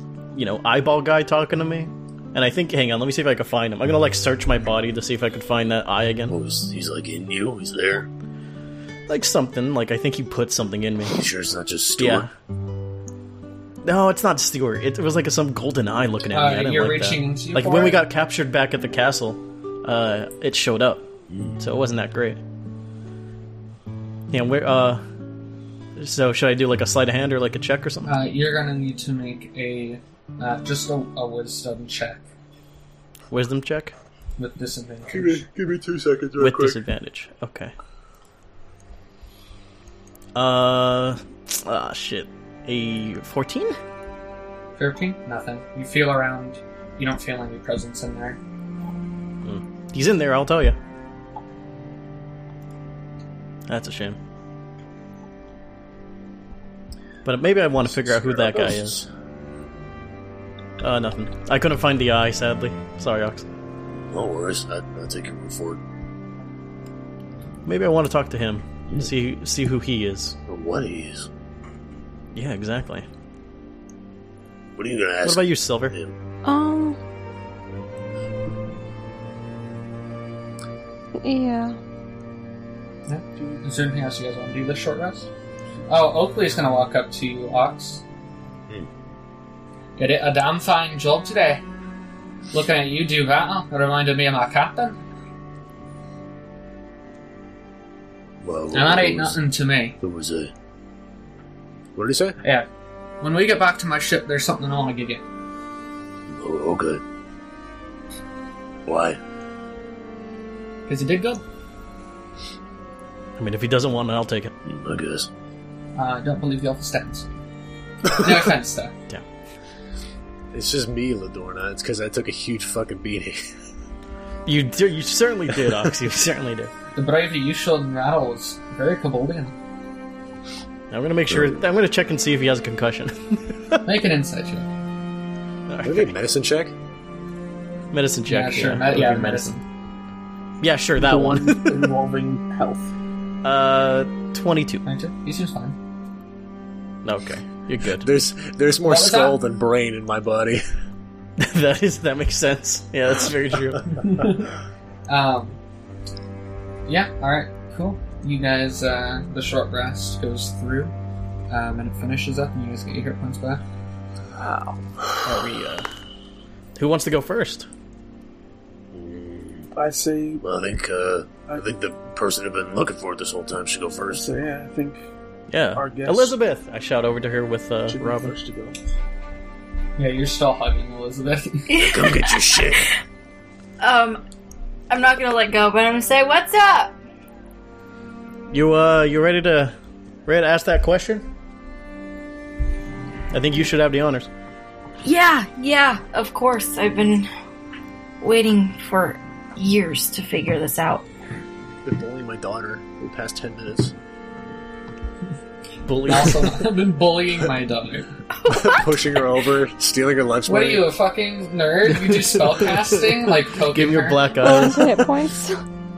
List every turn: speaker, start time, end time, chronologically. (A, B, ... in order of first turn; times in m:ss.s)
0:00.3-0:06.3 A
0:06.3-0:08.1 B
0:09.1-0:11.2 A
0:11.1-0:12.3 B
0:12.0-0:12.3 A
0:13.8-0:22.4 A
0:16.3-0:18.0 C
0:21.3-0:21.6 B
0:24.3-0:25.0 A
0:26.0-0:28.1 A
0:28.0-0:32.2 C
0:33.3-0:33.9 A
0:34.4-0:35.5 C
0:35.1-0:36.8 D
0:36.4-0:37.7 A
0:40.3-0:43.8 A
0:44.8-0:48.4 C
0:49.4-0:50.8 A
0:53.7-0:54.2 A
0:57.2-0:59.0 A
0:57.9-0:59.0 B
1:00.8-1:03.5 A
1:04.1-1:05.8 B
1:07.6-1:10.4 A
1:10.5-1:11.3 B
1:12.3-1:13.1 A
1:14.8-1:16.2 B
1:15.2-1:15.9 A
1:16.4-1:17.0 E
1:21.2-1:21.8 E
1:23.1-1:25.3 C
1:25.9-1:28.0 C
1:30.0-1:31.6 C
1:32.5-1:35.0 C
1:38.4-1:39.4 B
1:38.7-1:40.0 C
1:40.0-1:40.5 B
1:42.0-1:42.4 D
1:42.4-1:42.7 C
1:43.2-1:45.2 C
1:46.3-1:47.0 B
1:48.8-1:49.2 B
1:50.9-1:51.4 C
1:53.4-1:54.5 A
1:54.6-1:55.3 B
1:56.0-1:57.3 C
1:58.1-1:58.9 C
2:00.5-2:03.4 D
2:04.4-2:06.7 A
2:06.9-2:09.5 C
2:10.9-2:13.8 A
2:11.3-2:11.6 B
2:13.8-2:14.7 C
2:15.7-2:16.1 A
2:15.8-2:16.7 D
2:17.9-2:19.5 A
2:18.2-2:19.6 C
2:20.6-2:21.9 A
2:21.0-2:22.9 F
2:23.4-2:24.8 A
2:24.8-2:25.8 C
2:27.0-2:28.1 A
2:28.0-2:30.6 D
2:28.8-2:29.4 C
2:31.4-2:34.0 A
2:34.0-2:34.5 C
2:35.1-2:35.6 C
2:36.8-2:40.9 C
2:41.5-2:43.6 C
2:44.4-2:45.2 F
2:45.2-2:45.9 A
2:46.8-2:47.7 A
2:48.9-2:49.7 B
2:49.7-2:50.4 F
2:50.4-2:54.3 B
2:54.1-2:55.0 F
2:55.5-2:58.3 A
2:55.7-2:56.3 F
2:57.9-2:58.8 F
3:00.0-3:01.7 C
3:01.7-3:02.7 G
3:01.7-3:02.9 B
3:03.8-3:04.2 G
3:04.9-3:07.0 G
3:08.5-3:09.7 A
3:10.2-3:11.3 A
3:13.3-3:14.3 A
3:15.0-3:17.3 G
3:18.2-3:21.1 G
3:21.8-3:23.9 D
3:25.8-3:26.6 A
3:26.0-3:28.1 C
3:28.4-3:28.9 G
3:28.5-3:30.9 D
3:30.4-3:34.4 C
3:31.9-3:35.0 A
3:34.4-3:35.6 E